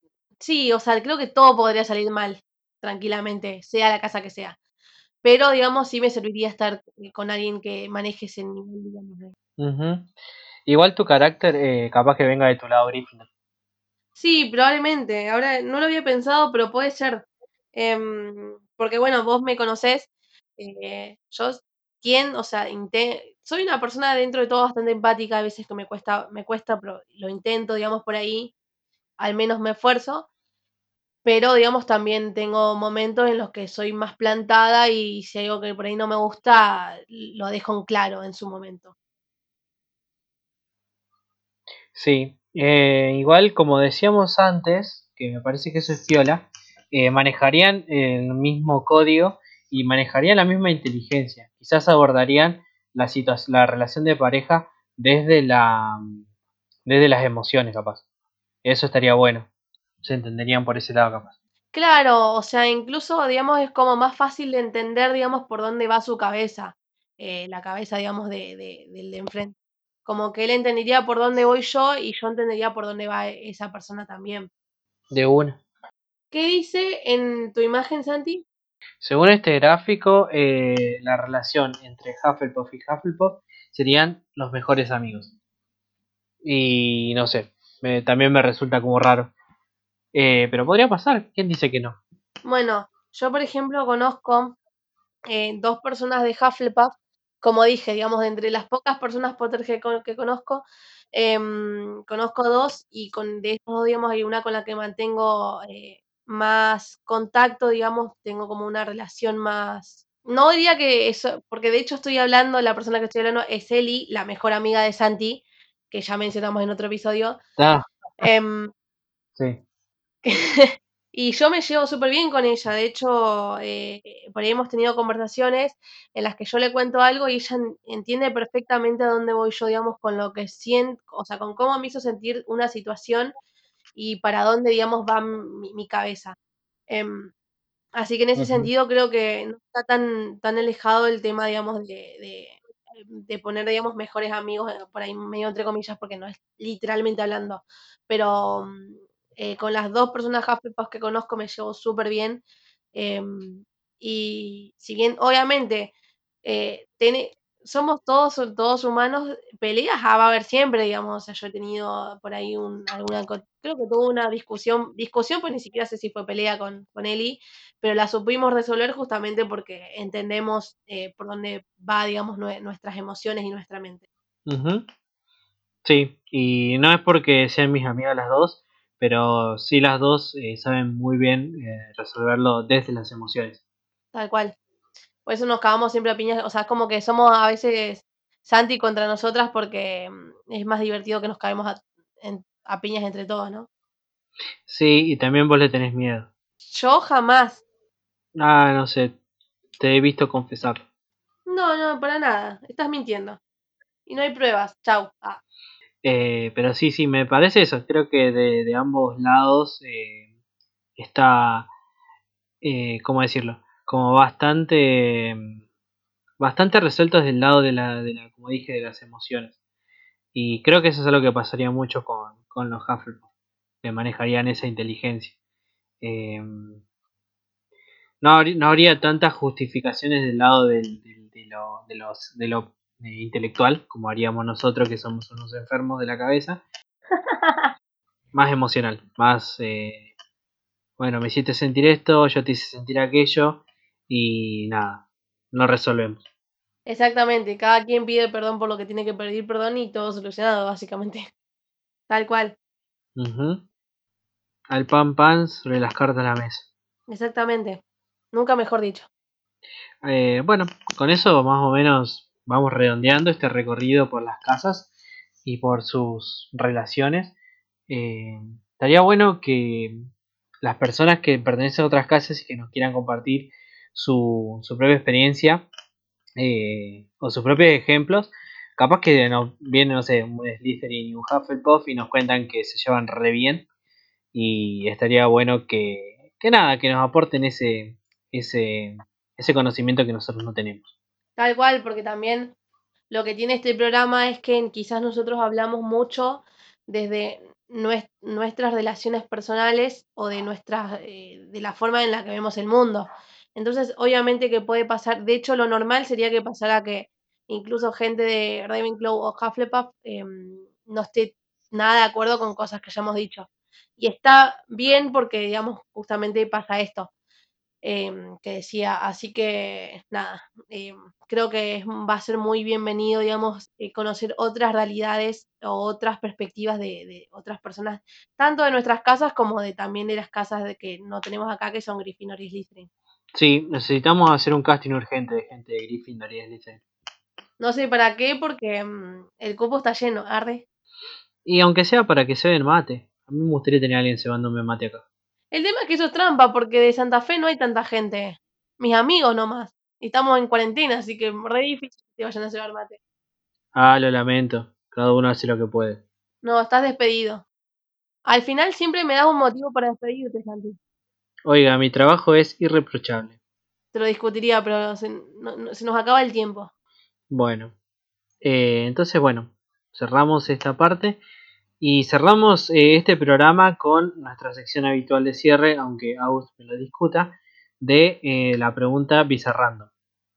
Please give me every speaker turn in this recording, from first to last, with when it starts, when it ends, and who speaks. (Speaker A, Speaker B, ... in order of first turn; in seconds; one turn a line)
Speaker A: 0.4-4.5
Speaker A: 5.2-9.3
Speaker B: 9.6-10.1
Speaker B: 10.7-13.3
Speaker A: 14.2-28.5
Speaker A: 29.2-30.3
Speaker A: 31.2-38.9
Speaker B: 41.9-56.2
Speaker B: 56.9-58.0
Speaker B: 58.6-59.5
Speaker B: 60.0-61.3
Speaker A: 61.7-74.5
Speaker B: 75.1-75.6
Speaker A: 76.3-78.4
Speaker B: 79.0-85.3
Speaker B: 86.4-89.3
Speaker B: 90.1-92.0
Speaker A: 92.4-94.6
Speaker A: 95.3-117.4
Speaker B: 117.6-117.8
Speaker A: 118.2-118.7
Speaker A: 120.2-133.3
Speaker A: 133.9-136.3
Speaker A: 136.9-137.3
Speaker A: 137.9-152.4
Speaker B: 138.3-138.7
Speaker A: 152.9-155.9
Speaker A: 156.4-174.1
Speaker B: 174.5-174.8
Speaker B: 175.8-183.6
Speaker A: 184.1-184.5
Speaker A: 185.2-193.7
Speaker B: 194.7-196.3
Speaker A: 196.6-197.6
Speaker B: 198.4-199.2
Speaker B: 199.8-200.8
Speaker A: 201.5-203.4
Speaker A: 204.1-205.4
Speaker B: 206.0-210.2
Speaker B: 211.0-211.7
Speaker B: 212.6-215.6
Speaker B: 216.4-219.6
Speaker B: 220.3-223.2
Speaker B: 223.8-225.3
Speaker B: 226.0-226.8
Speaker B: 228.2-236.6
Speaker A: 237.1-237.7
Speaker B: 238.3-240.1
Speaker B: 241.0-246.2
Speaker A: 246.8-251.3
Speaker A: 252.1-252.5
Speaker B: 253.2-253.6
Speaker B: 254.7-256.6
Speaker A: 257.1-257.8
Speaker A: 258.3-259.1
Speaker B: 260.0-264.9
Speaker B: 265.4-267.3
Speaker B: 267.9-270.0
Speaker B: 270.6-275.6
Speaker B: 276.4-283.6
Speaker B: 284.3-290.9
Speaker A: 291.4-292.5
Speaker A: 293.1-313.5
Speaker A: 314.0-317.1
Speaker A: 317.8-332.9
Speaker B: 333.3-336.8
Speaker A: 337.6-340.6
Speaker B: 341.4-345.0
Speaker A: 345.5-353.0
Speaker B: 353.7-356.0
Speaker A: 356.4-357.4
Speaker A: 358.2-360.8
Speaker B: 361.5-363.4
Speaker A: 363.9-366.7
Speaker B: 367.3-367.7
Speaker B: 368.4-371.2
Speaker B: 371.8-379.9